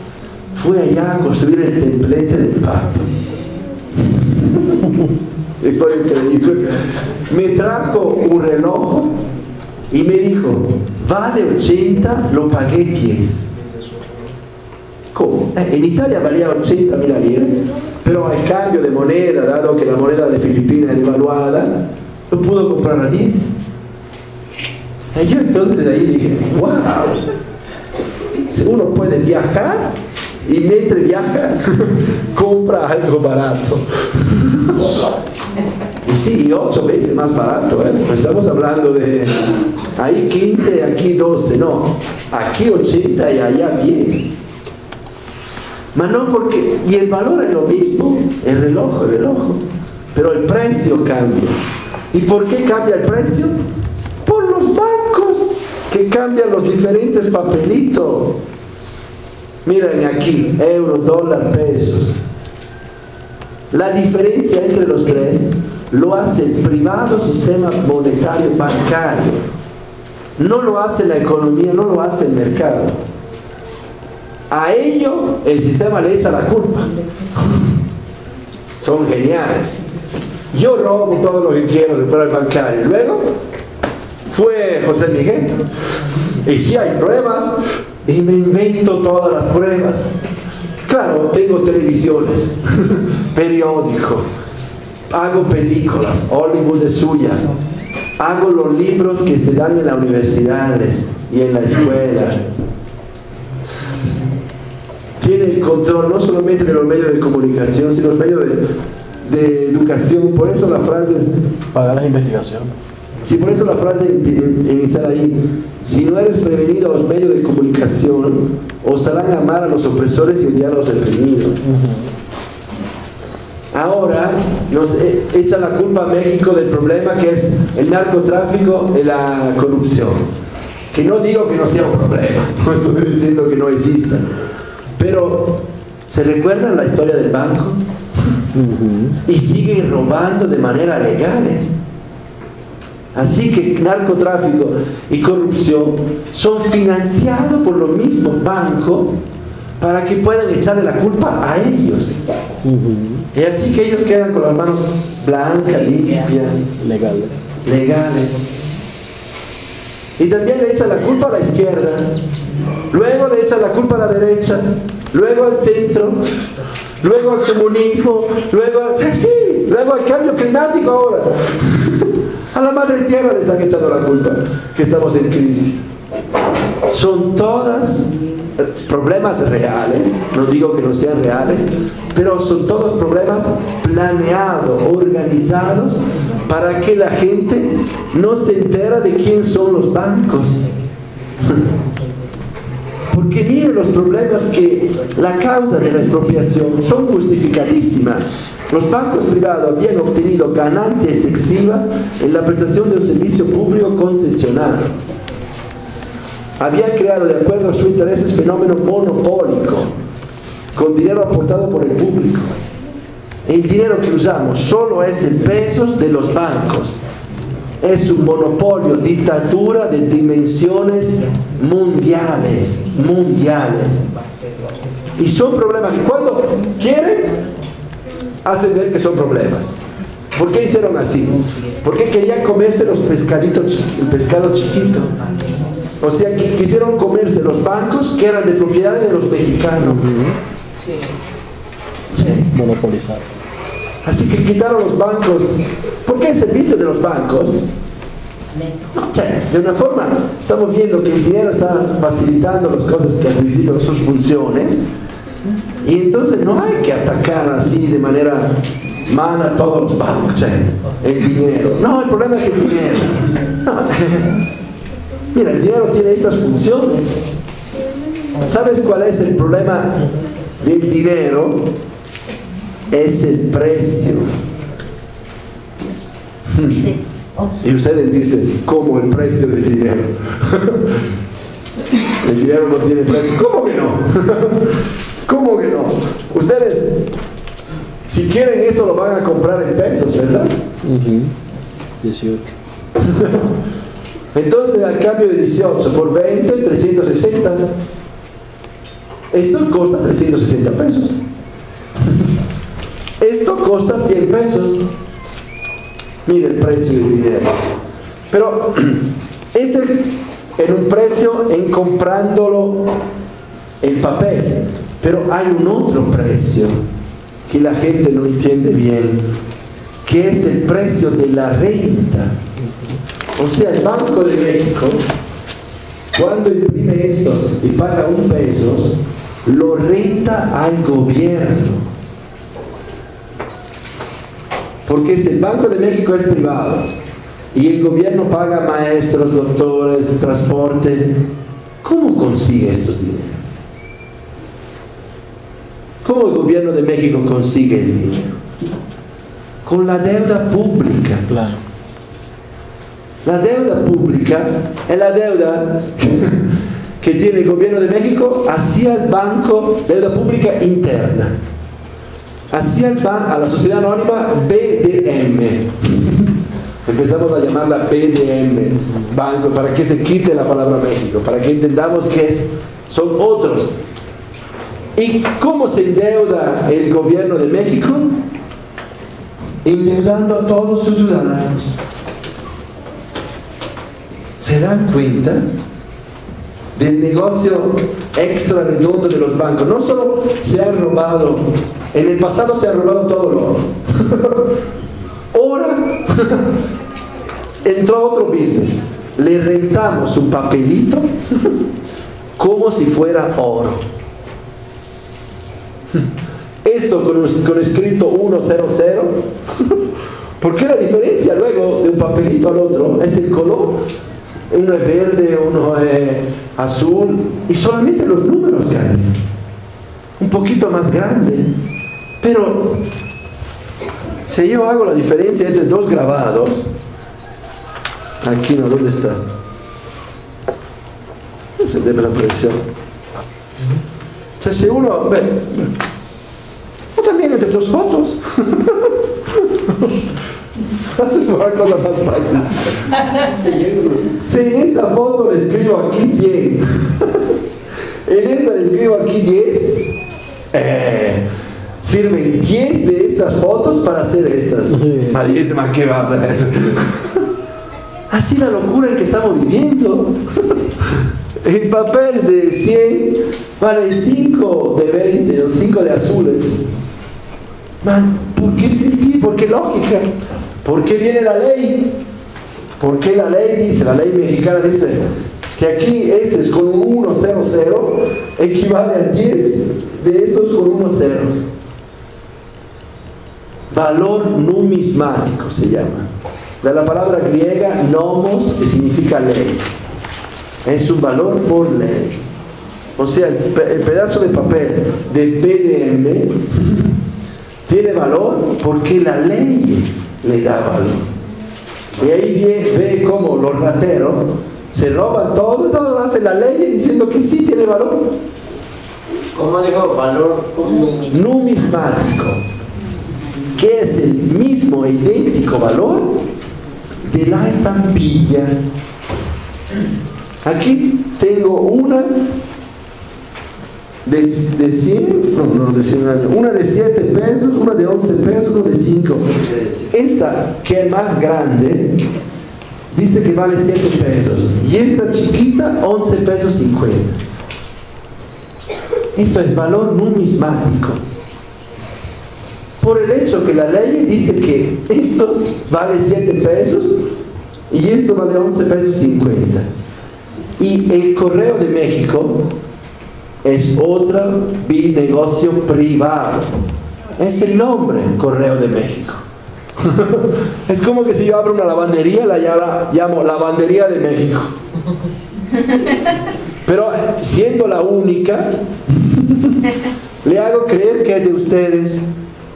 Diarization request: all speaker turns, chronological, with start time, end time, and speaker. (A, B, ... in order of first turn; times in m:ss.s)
0:00.5-0:03.1 A
0:04.0-0:04.8 A
0:05.6-0:09.2 A
0:09.9-0:13.5 A
0:15.1-0:23.6 A
0:25.1-0:27.2 A
0:28.4-0:35.0 A
0:36.1-0:44.3 A
0:45.9-0:51.6 A
0:52.1-0:53.6 A
0:54.2-0:58.4 A
0:59.6-1:02.2 A
1:03.7-1:09.5 A
1:10.4-1:13.0 A
1:14.5-1:17.7 A
1:18.8-1:19.8 A
1:20.5-1:23.3 A
1:24.3-1:25.6 A
1:26.3-1:30.1 A
1:30.8-1:34.3 A
1:35.1-1:37.5 A
1:38.2-1:42.4 A
1:43.6-1:44.2 A
1:45.2-1:51.3 A
1:51.7-1:52.7 B
1:53.2-2:01.6 A
2:01.6-2:02.1 B
2:03.7-2:10.3 A
2:10.9-2:14.3 A
2:15.0-2:18.3 A
2:18.5-2:19.2 B
2:19.2-2:21.8 A
2:23.1-2:29.2 A
2:29.8-2:32.2 A
2:32.6-2:33.3 B
2:33.3-2:36.6 A
2:36.8-2:37.4 B
2:37.6-2:38.4 A
2:40.2-2:42.2 A
2:42.9-2:55.8 A
2:56.9-3:10.7 A
3:11.4-3:11.7 A
3:13.1-3:25.0 A
3:26.6-3:29.9 A
3:30.7-3:32.5 A
3:33.4-3:37.0 A
3:37.8-3:44.1 A
3:45.2-3:47.4 A
3:48.4-3:49.8 A
3:50.4-3:55.1 A
3:56.0-4:00.1 A
3:59.8-4:00.4 B
4:02.1-4:02.5 A
4:02.5-4:03.2 B
4:04.0-4:07.6 A
4:08.9-4:14.8 A
4:15.8-4:18.6 A
4:19.1-4:24.4 A
4:25.3-4:27.2 A
4:28.4-4:30.0 A
4:30.6-4:31.7 A
4:32.9-4:34.3 A
4:36.5-4:36.9 A
4:37.6-4:41.0 A
4:42.2-4:47.0 A
4:48.1-4:50.5 A
4:50.8-4:51.3 B
4:52.0-4:52.5 B
4:53.0-4:53.5 A
4:54.3-4:57.7 A
4:59.3-5:01.2 A
5:03.2-5:04.9 A
5:06.2-5:07.6 A
5:08.3-5:13.0 A
5:13.8-5:16.8 A
5:17.5-5:19.3 A
5:20.0-5:22.4 A
5:22.6-5:23.0 B
5:23.4-5:25.1 A
5:26.1-5:31.9 A
5:34.9-5:36.9 A
5:37.5-5:41.2 A
5:41.8-5:43.4 A
5:46.0-5:48.4 A
5:49.6-5:51.2 A
5:51.3-5:51.6 B
5:53.2-5:56.5 A
5:57.0-6:01.4 A
6:02.5-6:06.3 A
6:06.9-6:13.8 A
6:15.0-6:18.2 A
6:19.6-6:21.8 A
6:24.4-6:25.4 A
6:26.7-6:34.4 A
6:35.3-6:36.5 A
6:37.6-6:41.5 A
6:42.4-6:43.8 A
6:46.6-6:49.8 A
6:50.4-6:53.8 A
6:54.5-6:59.2 A
7:00.2-7:01.5 A
7:02.2-7:02.8 A
7:04.3-7:06.7 A
7:08.2-7:09.2 A
7:11.6-7:12.7 A
7:14.4-7:15.7 A
7:17.0-7:19.9 A
7:20.9-7:23.0 A
7:24.0-7:27.3 A
7:28.1-7:29.9 A
7:30.5-7:31.2 A
7:31.8-7:37.2 A
7:34.7-7:35.2 B
7:38.1-7:46.6 A
7:47.8-7:52.0 A
7:52.8-8:01.4 A
8:03.7-8:06.1 A
8:06.6-8:09.6 A
8:10.6-8:12.2 A
8:13.0-8:16.9 A
8:17.7-8:21.1 A
8:22.0-8:28.2 A
8:29.3-8:31.1 C
8:31.1-8:32.4 A
8:33.6-8:36.3 A
8:37.1-8:38.6 A
8:40.4-8:42.3 A
8:44.0-8:49.3 A
8:49.4-8:49.9 C
8:49.9-8:52.0 A
8:52.9-8:57.2 A
8:59.1-9:01.0 A
9:02.8-9:07.0 A
9:07.7-9:09.7 A
9:10.6-9:12.5 A
9:13.4-9:16.6 A
9:17.2-9:19.2 A
9:19.8-9:24.5 A
9:26.6-9:29.6 A
9:30.2-9:32.1 A